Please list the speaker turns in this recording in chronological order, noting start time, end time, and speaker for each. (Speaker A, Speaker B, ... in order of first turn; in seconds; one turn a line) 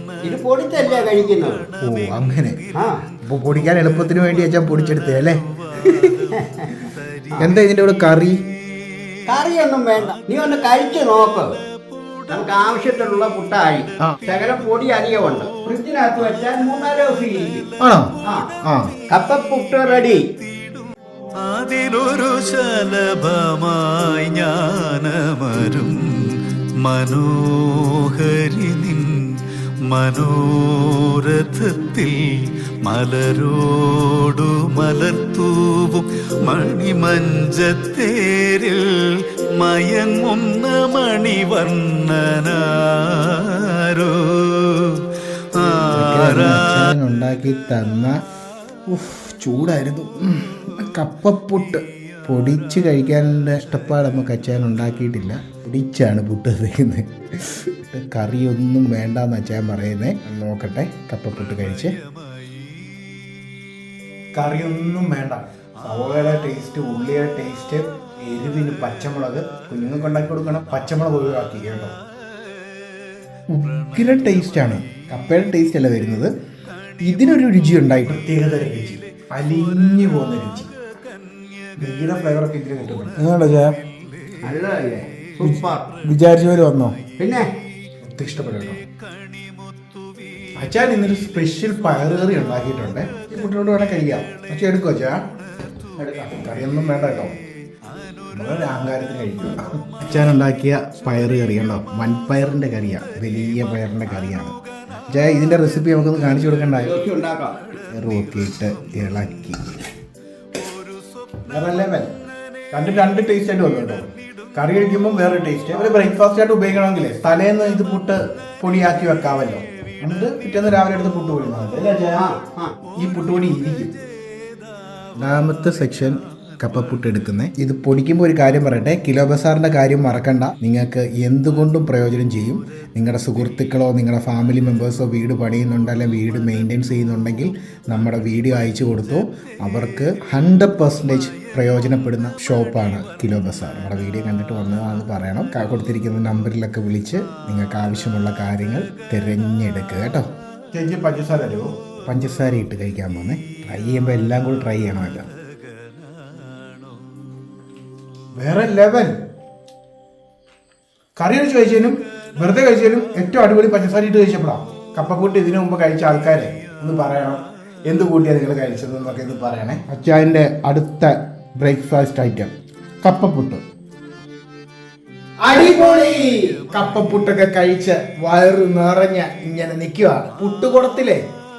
Speaker A: 0.2-1.7
Speaker B: 1.8-2.6
Speaker A: 2.7-3.0
Speaker B: 3.2-6.3
Speaker C: 5.8-7.3
Speaker A: 6.3-6.8
Speaker B: 7.4-8.4
Speaker A: 9.2-11.5
Speaker A: 12.3-17.7
Speaker B: 17.8-18.1
Speaker A: 18.2-18.5
Speaker B: 18.6-18.9
Speaker A: 19.1-20.3
Speaker C: 20.6-20.8
Speaker C: 21.4-46.6
Speaker B: 45.8-48.1
Speaker B: 48.9-62.0
Speaker B: 64.3-71.9
Speaker B: 73.5-76.3
Speaker B: 77.0-80.7
Speaker B: 81.8-83.8
Speaker A: 84.4-85.9
Speaker B: 85.4-87.0
Speaker A: 87.2-87.5
Speaker B: 88.0-88.8
Speaker B: 90.5-95.2
Speaker A: 96.0-96.3
Speaker B: 96.2-97.3
Speaker B: 98.3-104.5
Speaker B: 105.1-106.9
Speaker A: 106.8-107.6
Speaker B: 107.9-109.8
Speaker B: 111.5-112.1
Speaker B: 112.7-122.3
Speaker A: 122.1-122.7
Speaker B: 123.0-124.0
Speaker B: 125.2-155.2
Speaker C: 155.8-156.9
Speaker B: 158.3-159.2
Speaker B: 161.2-172.5
Speaker B: 173.0-173.6
Speaker B: 175.4-181.2
Speaker A: 175.5-176.5